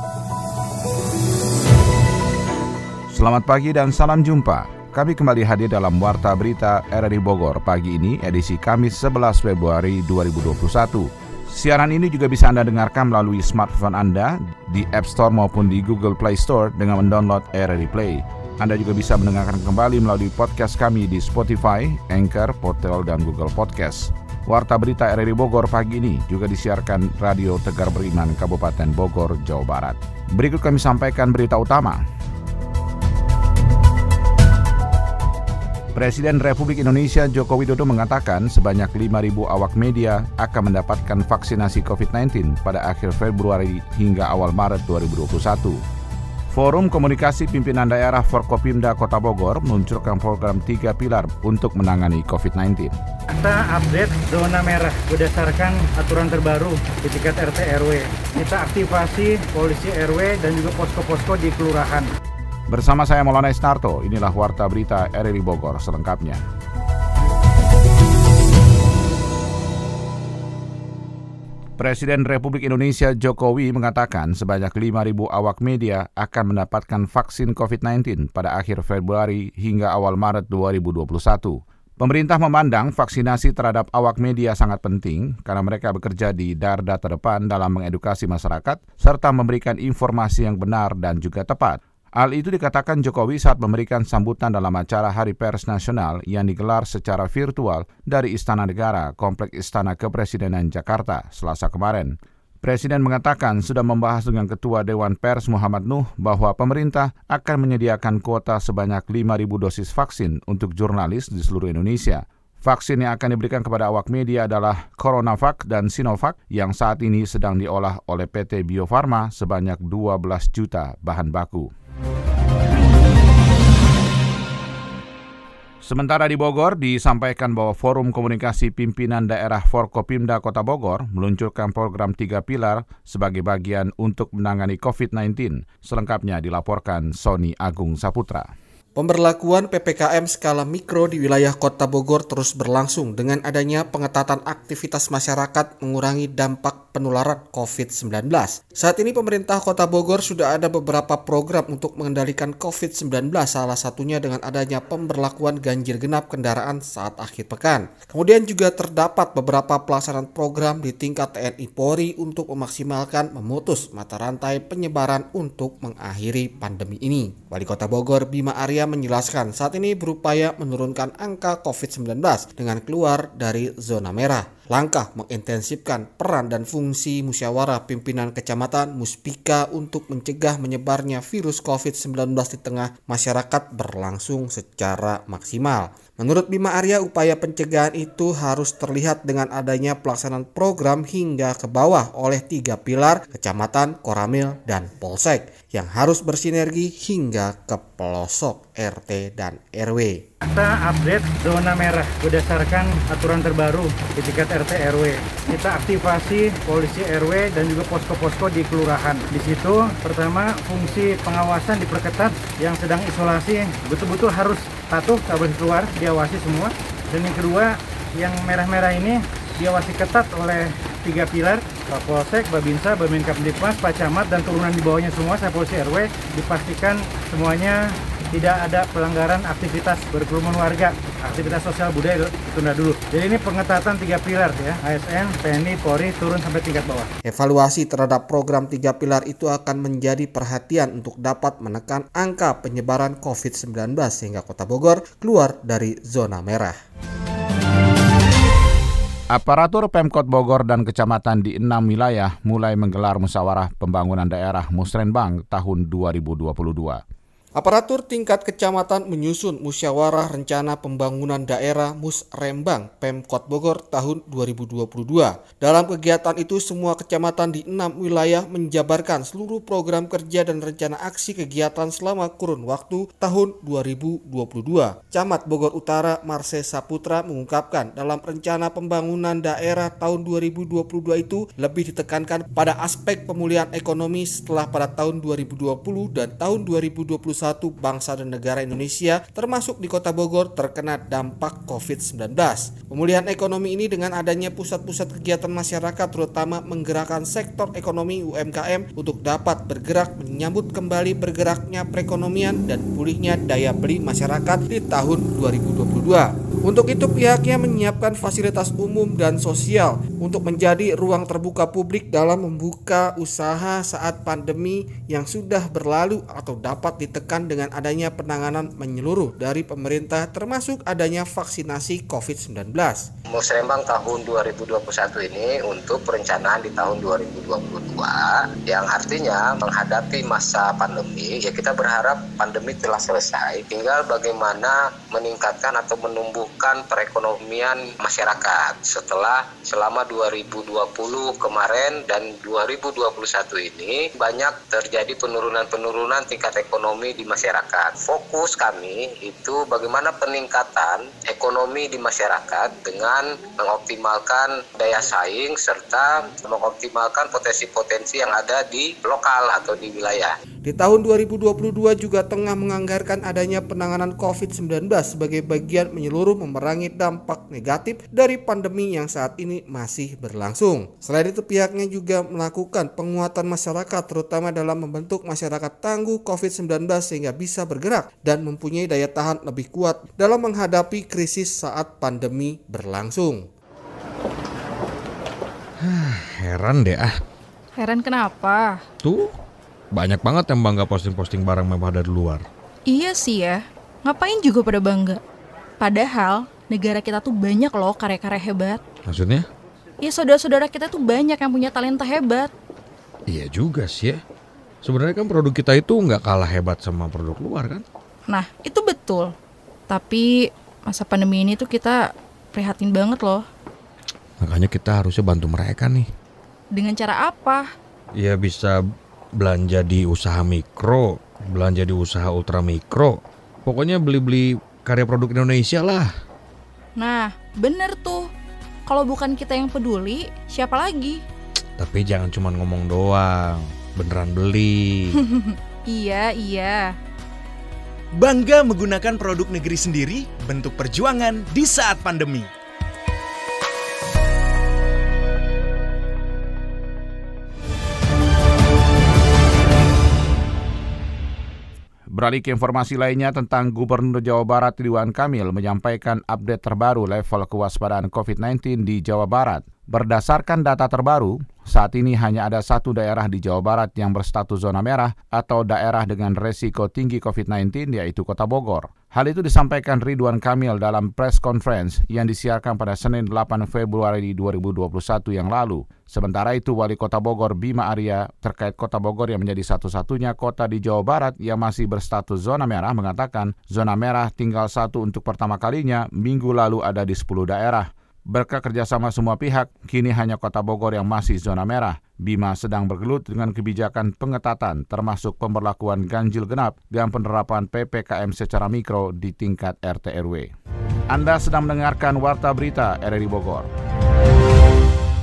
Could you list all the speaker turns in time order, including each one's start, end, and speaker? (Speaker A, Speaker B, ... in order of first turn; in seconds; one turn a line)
Speaker A: 3.1-32.0
Speaker A: 36.0-45.8
Speaker A: 46.5-52.9
Speaker B: 53.3-62.1
Speaker A: 62.7-66.4
Speaker A: 71.8-121.7
Speaker A: 125.8-138.5
Speaker C: 139.0-200.2
Speaker B: 200.5-237.1
Speaker C: 237.2-246.8
Speaker A: 249.3-257.0
Speaker C: 257.6-323.1
Speaker D: 323.3-360.3
Speaker C: 360.6-383.5
Speaker E: 385.8-387.2
Speaker F: 387.8-388.8
Speaker E: 389.0-389.3
Speaker E: 389.9-392.5
Speaker F: 392.9-395.2
Speaker F: 395.8-398.8
Speaker E: 399.1-399.5
Speaker F: 400.0-402.5
Speaker E: 403.3-404.2
Speaker E: 404.8-407.9
Speaker F: 408.3-409.3
Speaker F: 409.9-410.3
Speaker F: 410.9-412.0
Speaker F: 412.6-413.4
Speaker E: 414.4-416.1
Speaker F: 416.8-417.6
Speaker E: 418.1-426.1
Speaker F: 427.0-428.2
Speaker F: 428.9-431.2
Speaker E: 431.8-435.1
Speaker F: 435.4-436.9
Speaker G: 438.1-442.5
Speaker A: 452.1-500.5
Speaker A: 501.1-503.7